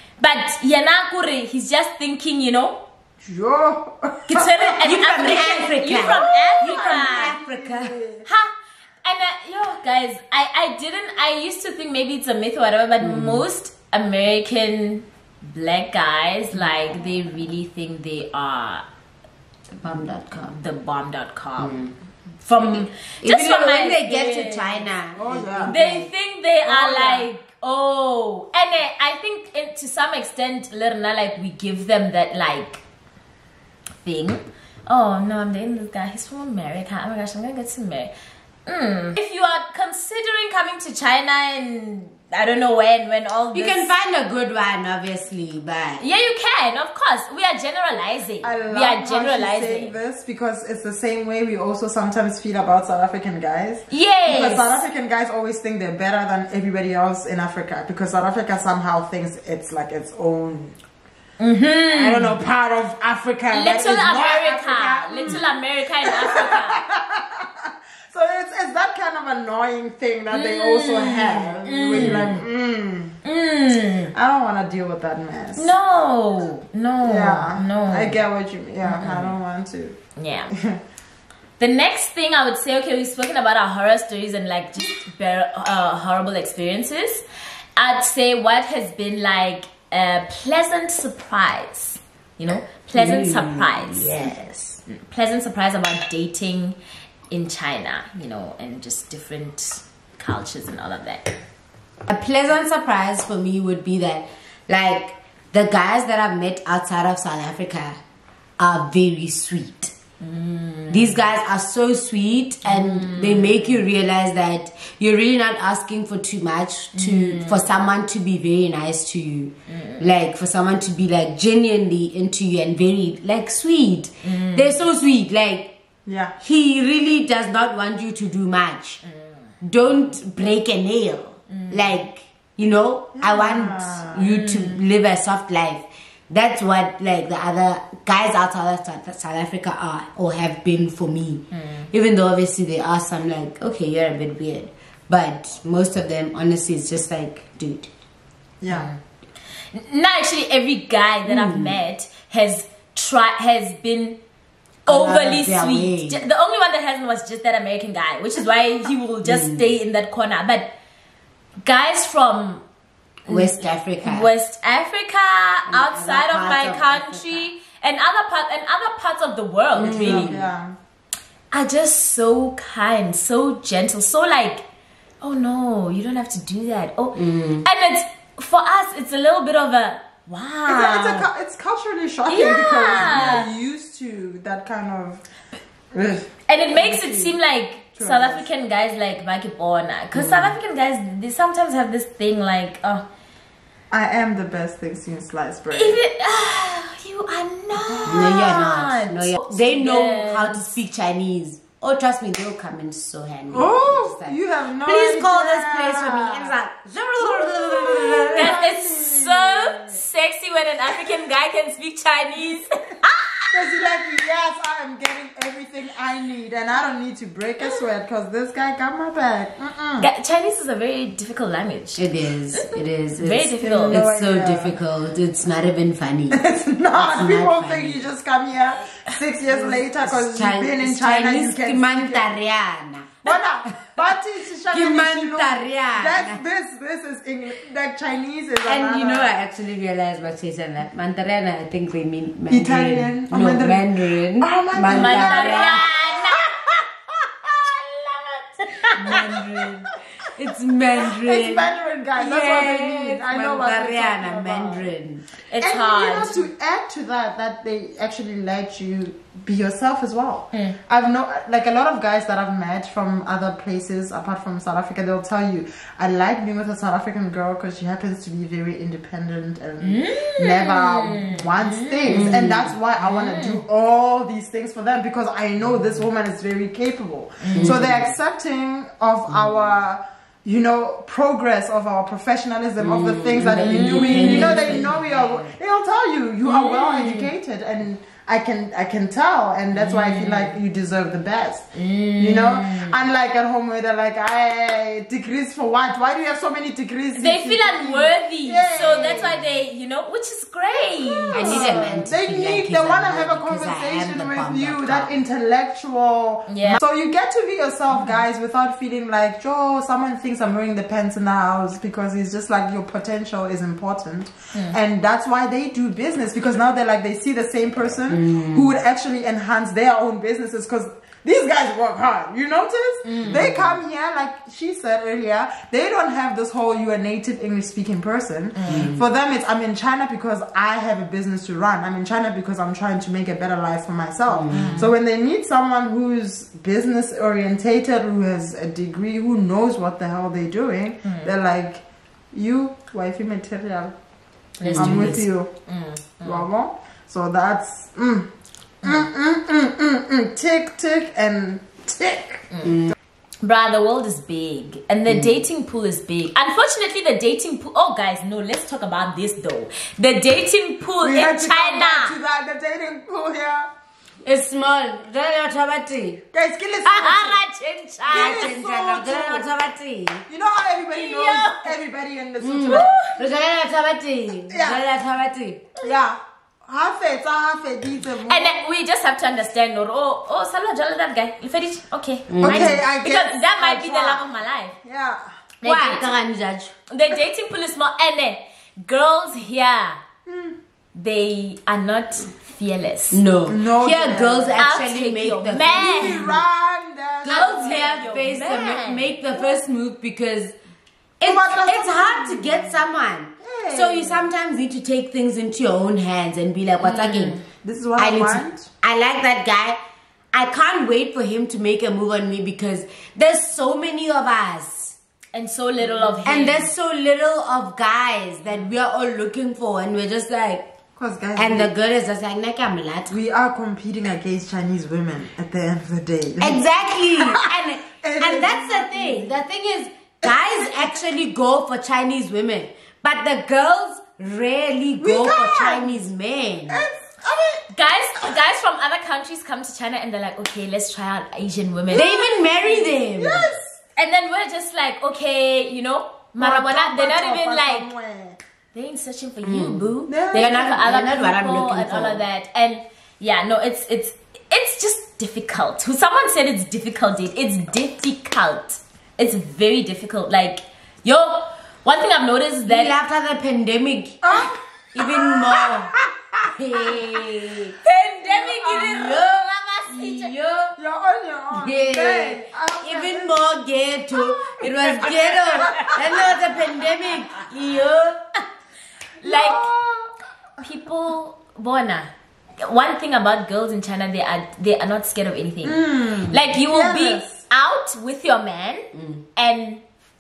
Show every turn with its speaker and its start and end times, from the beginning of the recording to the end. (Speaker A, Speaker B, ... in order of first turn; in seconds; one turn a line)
Speaker A: 0.2-2.8
Speaker B: 3.2-4.7
Speaker A: 4.3-7.3
Speaker C: 4.8-8.0
Speaker B: 6.0-8.3
Speaker A: 8.2-18.9
Speaker C: 13.0-13.4
Speaker C: 19.7-20.5
Speaker A: 20.4-21.9
Speaker C: 21.6-21.9
Speaker A: 22.4-24.9
Speaker C: 22.5-26.1
Speaker B: 25.1-25.8
Speaker A: 25.7-32.8
Speaker B: 26.6-27.3
Speaker A: 34.0-38.1
Speaker A: 38.7-43.9
Speaker C: 43.5-46.0
Speaker A: 46.0-50.0
Speaker B: 48.4-60.8
Speaker A: 53.9-54.9
Speaker A: 61.4-62.4
Speaker B: 61.9-65.5
Speaker A: 63.5-66.8
Speaker B: 66.0-73.2
Speaker A: 70.3-72.4
Speaker A: 73.2-74.1
Speaker B: 74.1-75.7
Speaker A: 75.6-78.2
Speaker B: 77.0-80.0
Speaker A: 78.8-79.3
Speaker A: 80.2-80.5
Speaker B: 80.5-80.8
Speaker A: 81.6-87.2
Speaker A: 87.8-94.3
Speaker C: 92.9-94.8
Speaker A: 94.9-96.8
Speaker A: 97.3-101.3
Speaker C: 102.1-108.0
Speaker C: 108.6-109.9
Speaker A: 110.2-111.1
Speaker C: 110.9-125.7
Speaker A: 112.7-113.8
Speaker A: 117.0-117.6
Speaker A: 119.7-120.0
Speaker A: 124.2-124.8
Speaker B: 126.1-126.3
Speaker C: 126.4-129.0
Speaker A: 129.1-129.4
Speaker C: 129.6-147.9
Speaker A: 131.5-131.9
Speaker B: 133.2-134.3
Speaker A: 134.3-134.8
Speaker A: 141.5-141.9
Speaker B: 148.6-148.9
Speaker A: 148.7-149.0
Speaker A: 149.7-154.2
Speaker C: 151.3-151.8
Speaker C: 154.9-156.2
Speaker A: 154.9-160.7
Speaker C: 159.2-159.7
Speaker A: 161.6-162.6
Speaker C: 163.3-164.3
Speaker A: 163.3-170.3
Speaker C: 165.7-167.5
Speaker C: 169.8-170.5
Speaker B: 169.8-170.8
Speaker A: 171.5-174.7
Speaker A: 175.2-181.3
Speaker C: 177.2-177.7
Speaker B: 180.7-185.2
Speaker A: 182.3-183.5
Speaker B: 185.9-187.3
Speaker A: 186.5-193.1
Speaker B: 188.0-188.4
Speaker C: 190.1-190.6
Speaker B: 193.9-196.0
Speaker A: 195.7-200.8
Speaker B: 197.9-198.3
Speaker C: 198.1-208.6
Speaker B: 203.5-206.5
Speaker B: 207.2-210.0
Speaker A: 208.4-213.7
Speaker B: 213.5-220.1
Speaker A: 220.0-224.0
Speaker C: 222.0-226.4
Speaker B: 223.6-224.8
Speaker B: 226.3-232.4
Speaker C: 226.9-228.1
Speaker C: 229.5-233.4
Speaker B: 233.2-239.3
Speaker C: 234.7-236.4
Speaker C: 238.6-245.8
Speaker B: 242.5-248.4
Speaker A: 244.8-246.5
Speaker A: 248.8-249.7
Speaker C: 248.9-255.2
Speaker B: 249.0-249.8
Speaker B: 250.9-254.9
Speaker A: 255.5-256.4
Speaker B: 255.6-291.7
Speaker A: 269.8-272.3
Speaker C: 272.1-272.7
Speaker A: 273.0-273.6
Speaker A: 277.4-277.9
Speaker C: 277.6-278.1
Speaker C: 282.8-285.5
Speaker A: 283.6-284.9
Speaker A: 286.4-287.3
Speaker A: 289.7-290.6
Speaker A: 291.7-293.0
Speaker B: 292.2-299.4
Speaker A: 297.1-302.0
Speaker B: 301.1-343.9
Speaker C: 301.3-305.2
Speaker A: 306.5-306.8
Speaker C: 318.1-318.7
Speaker A: 323.0-323.5
Speaker C: 323.2-323.8
Speaker A: 328.6-328.9
Speaker C: 328.7-329.0
Speaker C: 334.3-334.9
Speaker A: 334.5-334.9
Speaker A: 341.1-341.3
Speaker A: 344.6-346.5
Speaker C: 344.6-345.2
Speaker B: 344.8-345.5
Speaker B: 346.2-348.3
Speaker A: 348.8-349.1
Speaker B: 348.8-352.5
Speaker C: 352.6-352.9
Speaker A: 353.4-362.2
Speaker C: 355.1-355.4
Speaker B: 361.0-363.7
Speaker C: 364.2-366.2
Speaker B: 366.3-367.4
Speaker A: 366.8-368.5
Speaker B: 368.1-369.5
Speaker C: 368.1-370.2
Speaker B: 370.3-373.0
Speaker A: 370.9-371.7
Speaker C: 372.4-375.6
Speaker A: 372.7-373.2
Speaker B: 374.5-374.8
Speaker B: 375.8-378.6
Speaker A: 378.2-384.8
Speaker C: 382.3-382.8
Speaker B: 382.4-385.3
Speaker A: 385.6-386.1
Speaker C: 385.6-386.7
Speaker A: 386.9-390.0
Speaker B: 390.3-390.6
Speaker A: 390.9-393.2
Speaker C: 393.1-396.4
Speaker B: 393.5-394.6
Speaker A: 394.6-396.3
Speaker B: 395.6-398.8
Speaker C: 397.2-400.6
Speaker A: 397.3-399.1
Speaker B: 399.3-399.6
Speaker C: 401.2-407.4
Speaker B: 401.2-402.8
Speaker B: 403.4-404.3
Speaker A: 406.8-407.4
Speaker B: 407.4-408.7
Speaker C: 408.0-409.8
Speaker C: 410.3-415.0
Speaker A: 415.3-416.7
Speaker C: 416.2-420.6
Speaker B: 421.0-421.7
Speaker C: 421.4-423.1
Speaker B: 423.1-429.4
Speaker C: 426.4-436.9
Speaker B: 430.2-430.9
Speaker B: 435.0-436.0
Speaker B: 436.7-437.7
Speaker A: 437.7-442.2
Speaker C: 441.9-443.5
Speaker B: 441.9-443.8
Speaker A: 444.0-447.9
Speaker B: 446.4-448.4
Speaker A: 448.7-462.9
Speaker C: 449.4-452.2
Speaker B: 450.1-450.8
Speaker C: 462.6-465.9
Speaker B: 464.2-466.4
Speaker C: 466.5-467.8
Speaker A: 467.8-470.3
Speaker B: 468.4-468.9
Speaker C: 468.6-470.8
Speaker B: 470.8-473.4
Speaker C: 471.5-478.3
Speaker A: 474.2-476.3
Speaker B: 475.0-476.5
Speaker A: 479.2-479.7
Speaker B: 479.2-480.1
Speaker A: 480.6-489.8
Speaker B: 485.6-487.4
Speaker C: 488.9-489.2